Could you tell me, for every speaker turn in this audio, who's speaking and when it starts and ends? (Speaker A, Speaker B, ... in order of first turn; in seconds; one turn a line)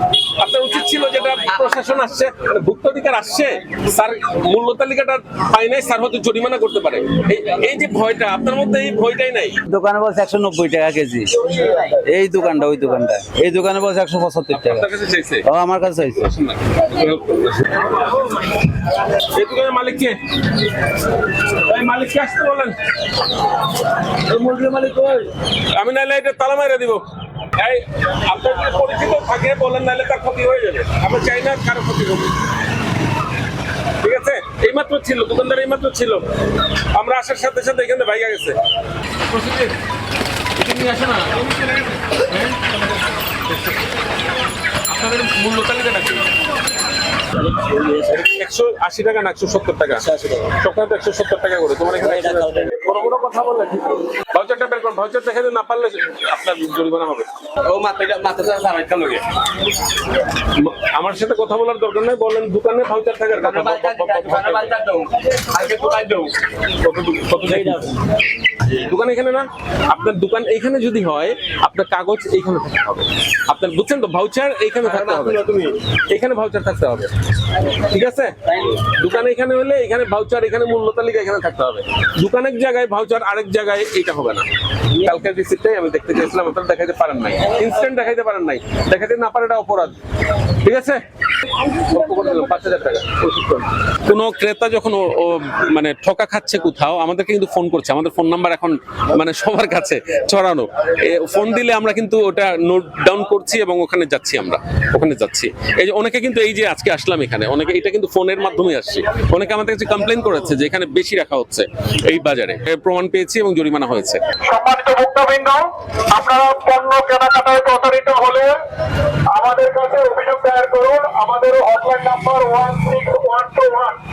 Speaker A: 0.4-9.6
Speaker B: 9.7-14.9
Speaker A: 14.5-15.4
Speaker B: 15.4-16.3
Speaker A: 16.2-17.9
Speaker A: 19.2-20.2
Speaker A: 21.4-22.8
Speaker C: 24.3-25.2
Speaker A: 25.7-27.0
Speaker A: 27.6-32.3
Speaker A: 34.0-36.2
Speaker A: 36.9-38.6
Speaker A: 39.2-39.8
Speaker A: 40.6-42.7
Speaker A: 44.9-46.3
Speaker C: 47.5-48.0
Speaker A: 48.0-57.3
Speaker C: 50.0-50.5
Speaker C: 52.1-52.6
Speaker C: 57.6-59.2
Speaker A: 60.4-64.7
Speaker C: 63.3-66.3
Speaker A: 66.8-67.8
Speaker C: 67.4-67.9
Speaker A: 68.7-75.4
Speaker C: 74.8-75.7
Speaker A: 76.1-77.1
Speaker A: 77.7-89.9
Speaker A: 90.6-91.0
Speaker A: 91.7-114.2
Speaker D: 114.4-118.5
Speaker D: 119.3-124.0